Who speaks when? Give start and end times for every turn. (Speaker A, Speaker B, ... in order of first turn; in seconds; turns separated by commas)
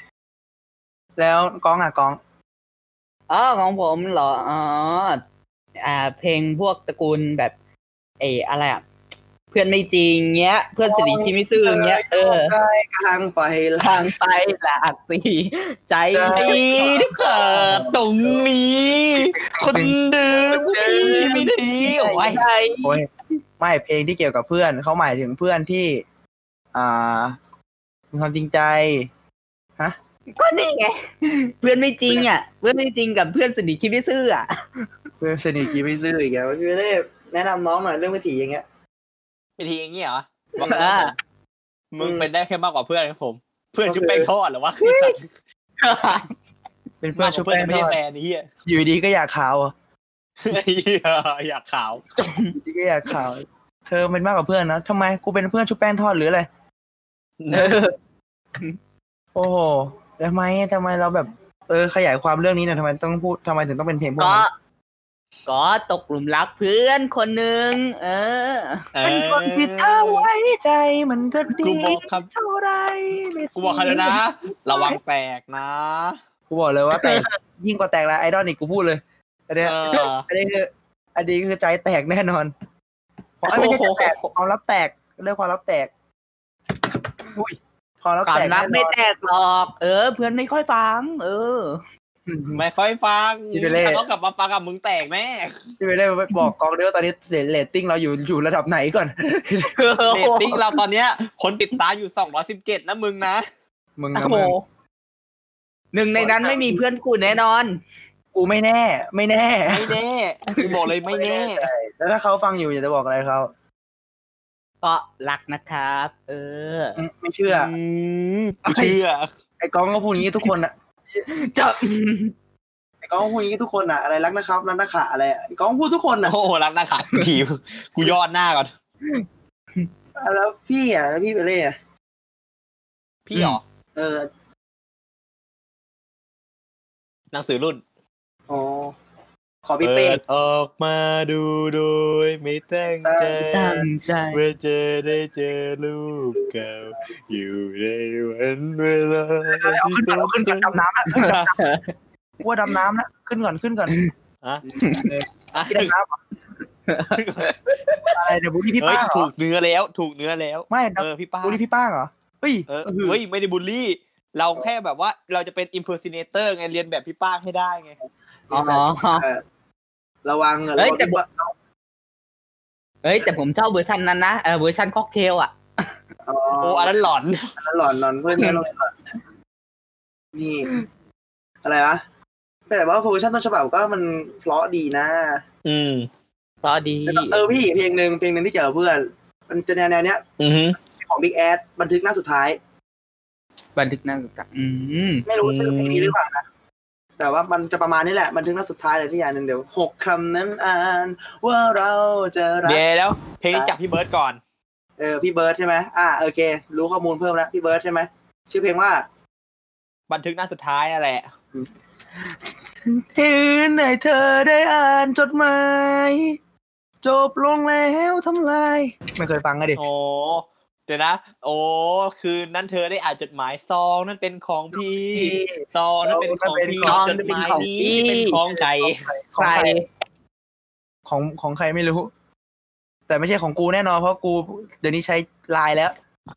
Speaker A: 1.2-2.2, Speaker B: 3.3-5.2, Speaker B: 5.8-7.5, Speaker B: 8.2-8.8, Speaker B: 9.5-12.5, Speaker A: 10.8-14.1, Speaker B: 13.8-16.6, Speaker A: 16.1-18.4, Speaker C: 16.3-22.4, Speaker A: 19.2-19.9, Speaker B: 20.5-23.0, Speaker A: 21.0-23.1, Speaker A: 23.6-26.1, Speaker A: 26.7-27.4, Speaker A: 28.1-29.1, Speaker B: 30.4-34.5, Speaker A: 35.2-38.6, Speaker C: 39.6-41.1, Speaker B: 40.6-41.1, Speaker C: 41.9-45.3, Speaker A: 42.0-42.3, Speaker A: 43.9-44.3, Speaker B: 45.8-46.3, Speaker A: 47.0-48.0, Speaker C: 47.2-48.5, Speaker A: 48.7-49.7, Speaker C: 50.4-52.0, Speaker B: 52.2-52.6, Speaker A: 52.6-56.5, Speaker C: 57.4-57.8, Speaker B: 57.5-58.0, Speaker A: 59.4-64.5, Speaker B: 64.2-64.5, Speaker B: 65.5-68.9, Speaker C: 69.0-70.3, Speaker A: 69.0-75.0, Speaker C: 71.6-72.3, Speaker C: 73.6-76.2, Speaker A: 76.5-82.5, Speaker B: 77.0-77.3, Speaker C: 79.6-80.3, Speaker A: 83.4-85.9, Speaker B: 83.5-84.3, Speaker A: 87.2-88.9, Speaker B: 88.2-91.8, Speaker A: 92.3-92.6, Speaker C: 92.5-95.7, Speaker A: 93.5-94.0, Speaker A: 95.8-99.8, Speaker B: 99.7-100.8, Speaker C: 100.1-103.4, Speaker A: 104.0-104.6, Speaker B: 104.2-104.6, Speaker B: 105.9-107.8, Speaker A: 106.2-106.8, Speaker A: 108.3-110.0, Speaker C: 109.7-111.7, Speaker A: 111.0-113.5, Speaker B: 114.8-117.0, Speaker A: 117.0-117.8, Speaker C: 117.5-119.3, Speaker B: 118.7-119.0, Speaker A: 119.6-121.3, Speaker B: 121.3-122.3, Speaker A: 123.0-126.4, Speaker C: 126.2-128.7, Speaker A: 130.2-131.8, Speaker C: 133.3-133.6, Speaker A: 133.4-134.3, Speaker C: 137.3-137.8, Speaker A: 138.5-138.9, Speaker A: 139.7-140.2, Speaker C: 139.8-151.5, Speaker A: 143.0-143.4, Speaker B: 143.4-144.4, Speaker A: 149.5-151.4, Speaker B: 151.2-151.9, Speaker A: 152.4-154.0, Speaker B: 154.8-155.1, Speaker A: 154.9-156.2, Speaker C: 155.5-155.9, Speaker B: 156.9-158.2, Speaker C: 157.2-157.5, Speaker A: 158.1-159.3, Speaker C: 158.8-161.6, Speaker A: 160.7-163.2, Speaker C: 162.7-167.9, Speaker A: 168.5-169.4, Speaker B: 168.5-169.3, Speaker A: 170.2-171.5, Speaker B: 170.8-171.2, Speaker B: 173.0-175.9, Speaker A: 176.2-176.9, Speaker C: 176.6-177.5, Speaker A: 177.6-178.9, Speaker A: 180.3-180.8, Speaker A: 181.6-182.0, Speaker A: 182.7-185.4, Speaker C: 185.7-186.1, Speaker B: 186.6-187.4, Speaker A: 187.1-190.2, Speaker C: 190.4-190.8, Speaker A: 190.8-192.6, Speaker B: 193.8-195.3, Speaker A: 195.3-196.5, Speaker C: 195.4-196.2, Speaker A: 197.2-202.8, Speaker C: 202.7-204.4, Speaker A: 205.0-209.1, Speaker C: 210.1-211.3, Speaker A: 211.5-216.4, Speaker A: 217.0-219.8, Speaker C: 219.8-229.1, Speaker A: 225.1-227.7, Speaker B: 226.8-228.4, Speaker A: 228.5-229.8, Speaker B: 229.4-229.8, Speaker A: 231.1-232.1, Speaker A: 233.1-235.9